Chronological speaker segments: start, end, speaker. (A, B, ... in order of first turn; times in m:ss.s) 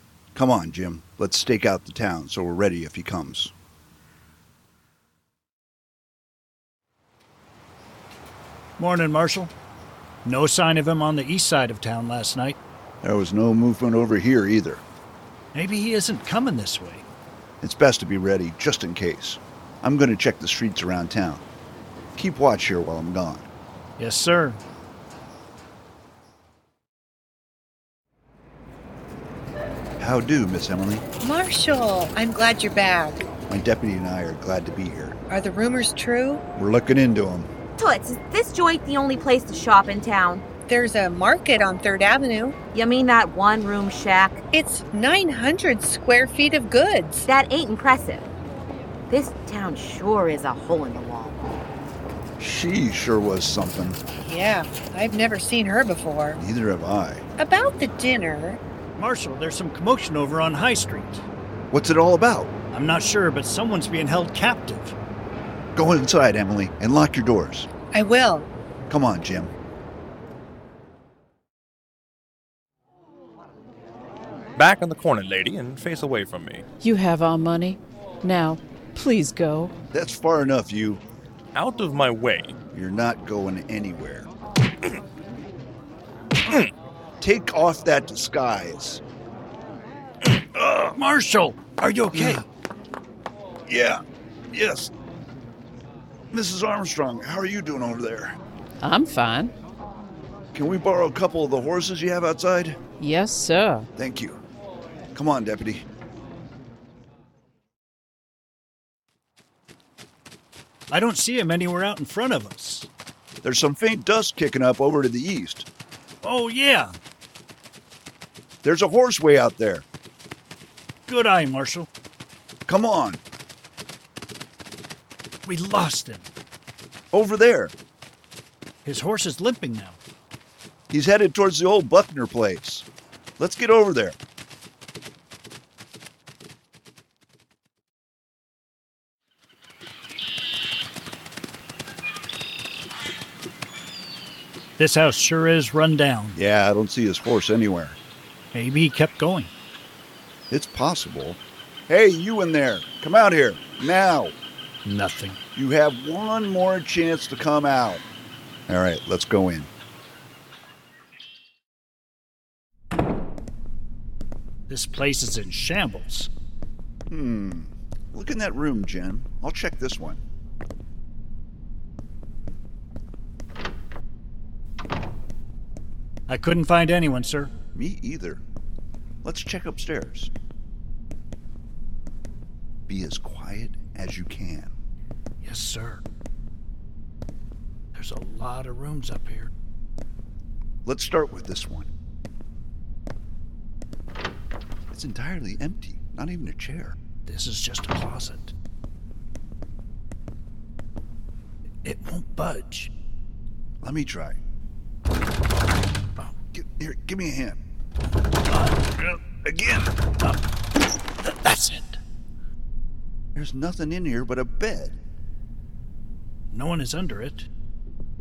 0:00.3-0:03.5 A
0:08.8-0:09.5 B
0:10.2-0:12.6 B
0:13.0-0:14.8 A
0:15.5-0:17.0 B
0:17.6-0:21.4 A
0:22.1-0:23.5 A
0:24.0-0:24.6 B
0:30.0-0:31.0 A
0:31.2-0:33.2 C
0:33.5-0:35.2 A
0:35.3-0:36.4 C
0:36.6-0:37.5 A
0:37.8-0:40.4 D
0:40.7-0:42.6 C
0:42.7-0:44.4 D
0:44.5-0:47.3 C
0:47.2-0:48.2 D
0:49.1-0:51.4 D
0:52.4-0:54.0 A
0:54.2-0:56.4 C
0:56.4-0:57.2 A
0:57.4-0:58.6 C
0:59.0-1:01.2 B
1:01.7-1:02.5 A
1:02.7-1:04.9 B
1:05.7-1:07.7 A
1:07.9-1:08.5 C
1:08.9-1:09.5 A
1:14.6-1:16.6 E
1:16.8-1:19.7 F
1:19.9-1:21.0 A
1:21.5-1:22.5 E
1:22.7-1:24.3 A
1:27.2-1:29.0 A
1:30.6-1:32.4 B
1:32.1-1:32.4 A
1:33.6-1:34.9 A
1:36.3-1:38.4 A
1:38.8-1:39.5 F
1:40.5-1:42.8 A
1:43.0-1:43.9 F
1:44.0-1:44.4 A
1:45.1-1:45.8 A
1:50.9-1:52.9 B
1:53.4-1:55.6 A
1:56.2-1:56.9 B
1:58.6-1:59.8 A
2:01.1-2:01.9 B
2:02.7-2:03.2 A
2:05.4-2:06.3 B
2:07.1-2:07.7 A
2:08.8-2:10.0 B
2:10.9-2:12.8 A
2:13.4-2:14.2 A
2:24.8-2:26.4 B
2:26.3-2:28.0 A
2:28.5-2:29.5 B
2:30.5-2:34.3 A
2:34.8-2:35.4 B
2:35.5-2:38.0 A
2:38.7-2:39.7 A
2:44.7-2:46.3 B
2:47.1-2:50.2 A
2:56.3-2:57.5 B
2:57.7-2:58.4 A
2:59.2-3:00.3 A
3:02.9-3:04.7 A
3:05.4-3:06.0 B
3:07.9-3:09.5 B
3:10.8-3:11.9 A
3:14.9-3:17.0 A
3:17.2-3:18.5 B
3:21.8-3:22.9 B
3:23.8-3:24.4 A
3:26.5-3:27.6 A
3:28.5-3:29.2 B
3:29.4-3:29.9 A
3:31.2-3:32.0 B
3:33.3-3:35.0 A
3:36.5-3:37.5 B